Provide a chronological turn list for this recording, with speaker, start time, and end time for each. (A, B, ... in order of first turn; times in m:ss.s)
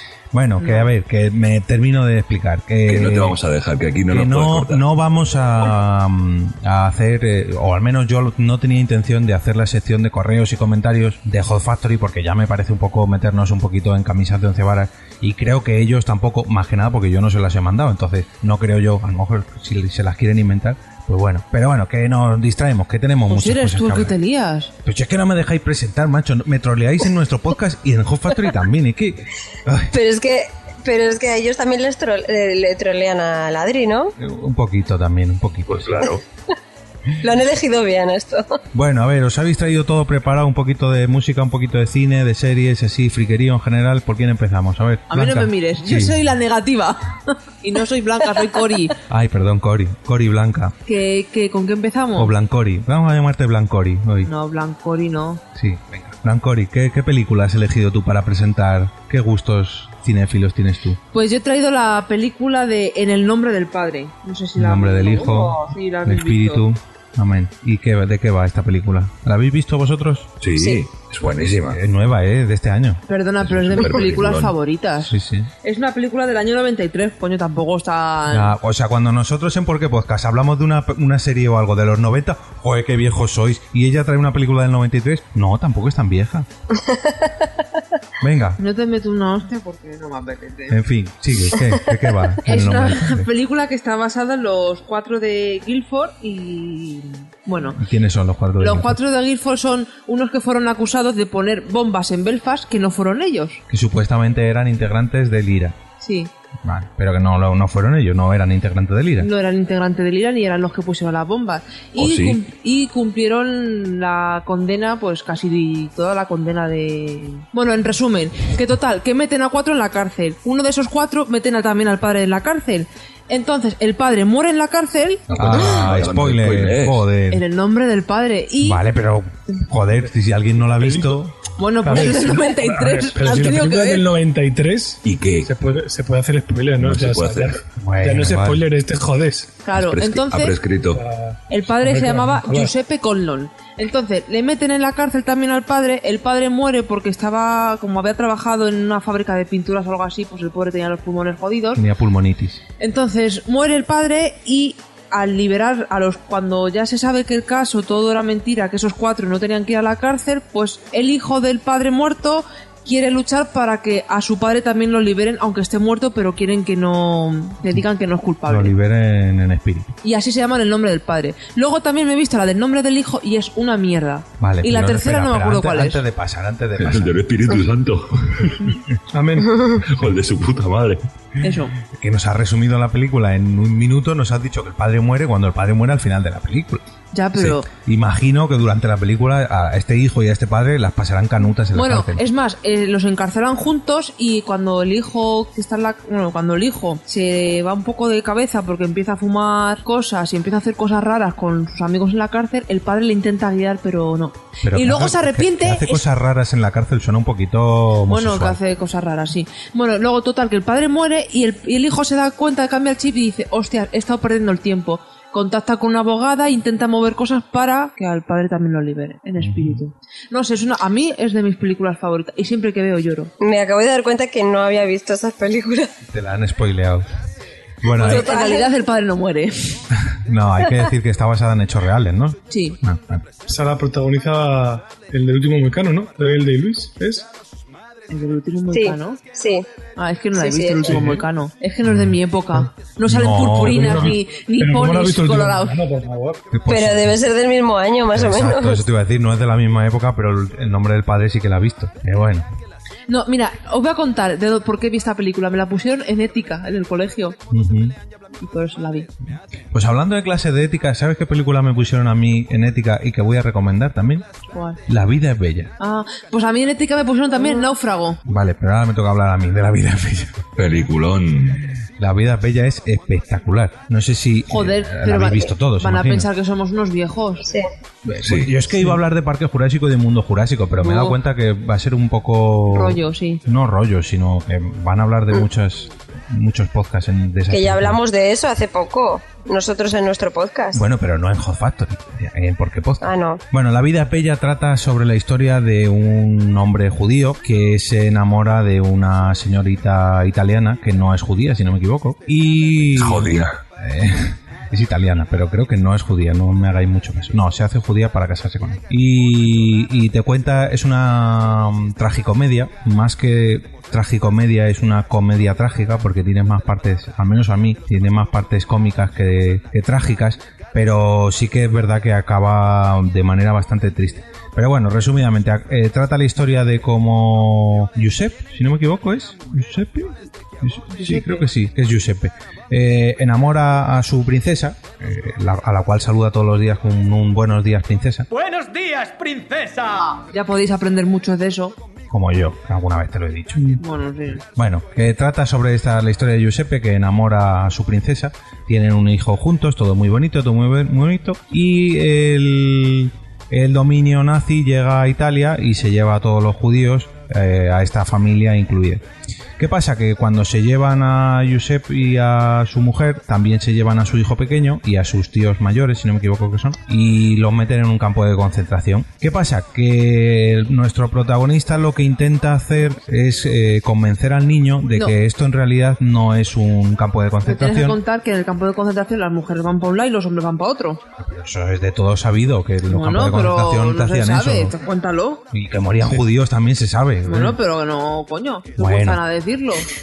0:00.3-0:03.4 A
0:00.6-0:00.9 B
0:02.9-0:04.8 C
0:04.1-0:24.1 A
0:23.3-0:24.7 B
0:24.8-0:29.9 A
0:29.9-0:34.1 D
0:34.2-0:36.0 A
0:35.7-0:36.2 C
0:37.2-0:38.6 D
0:38.7-0:46.1 A
0:45.1-0:48.9 B
0:49.1-0:50.7 A
0:50.9-0:52.3 B
0:52.2-0:54.3 A
0:54.2-0:55.4 B
0:55.6-1:01.0 A
1:01.1-1:06.6 B
1:04.6-1:10.3 A
1:10.4-1:11.8 C
1:10.6-1:10.8 D
1:11.4-1:13.0 A
1:13.1-1:15.1 B
1:13.4-1:14.5 C
1:15.0-1:15.5 A
1:15.6-1:18.5 B
1:18.3-1:26.5 A
1:26.8-1:27.3 D
1:28.2-1:28.6 A
1:28.6-1:30.8 B
1:30.7-1:33.3 A
1:32.4-1:37.8 B
1:37.7-1:39.0 A
1:38.6-1:43.6 B
1:43.7-1:45.8 A
1:46.0-1:46.3 B
1:46.6-1:49.3 A
1:49.2-2:05.2 B
1:52.0-1:52.4 C
2:05.3-2:07.0 C
2:05.3-2:07.4 A
2:07.3-2:08.8 B
2:08.6-2:11.3 A
2:10.8-2:11.2 E
2:11.6-2:14.1 B
2:11.8-2:19.6 E
2:15.0-2:15.5 C
2:16.8-2:17.6 C
2:17.8-2:18.6 A
2:19.6-2:20.5 B
2:19.7-2:21.0 C
2:20.9-2:22.7 E
2:21.5-2:31.8 B
2:31.7-2:32.6 A
2:32.8-2:48.7 B
2:48.4-2:49.9 A
2:50.0-2:56.0 B
2:54.4-2:57.2 A
2:56.8-2:58.6 C
2:59.1-2:59.5 E
2:59.8-3:01.0 C
3:01.4-3:01.7 B
3:01.9-3:06.8 A
3:07.1-3:07.7 B
3:07.4-3:12.2 A
3:11.7-3:26.0 B
3:24.6-3:28.6 A
3:28.1-3:43.3 B
3:39.4-3:39.8 A
3:43.4-3:45.9 D
3:46.1-3:47.0 A
3:47.8-3:48.3 A
3:47.9-3:49.8 B
3:47.9-3:48.7 D
3:50.1-3:53.2 A
3:52.5-3:52.8 B
3:53.5-3:57.3 E
3:58.1-3:59.2 B
3:58.7-3:59.6 D
4:00.0-4:05.8 B
4:00.3-4:01.1 D
4:00.8-4:01.2 E
4:01.8-4:02.2 A
4:03.0-4:04.2 A
4:03.6-4:06.4 E
4:06.5-4:07.2 A
4:06.7-4:08.8 D
4:08.1-4:12.5 A
4:13.1-4:17.4 B
4:17.5-4:18.0 A
4:18.4-4:19.1 B
4:19.7-4:24.2 A
4:24.5-4:24.8 B
4:24.9-4:25.7 A
4:25.8-4:28.2 B
4:28.2-4:30.4 A
4:30.6-4:31.6 C
4:32.0-4:36.3 A
4:34.5-4:37.4 B
4:37.4-4:37.7 D
4:38.0-4:48.0 A
4:38.2-4:38.6 C
4:40.8-4:41.2 B
4:42.7-4:43.4 B
4:47.5-4:50.8 D
4:50.7-5:38.3 A
4:53.0-4:53.4 D
5:02.9-5:03.5 C
5:30.9-5:31.4 B
5:38.3-5:40.2 F
5:40.3-5:41.8 B
5:42.1-5:43.8 A
5:43.8-5:44.4 B
5:44.4-5:59.0 A
5:59.6-6:18.0 A
6:17.4-6:21.0 B
6:21.2-6:24.8 A
6:22.9-6:25.4 B
6:25.5-6:27.6 A
6:27.2-6:29.9 B
6:28.8-6:29.2 A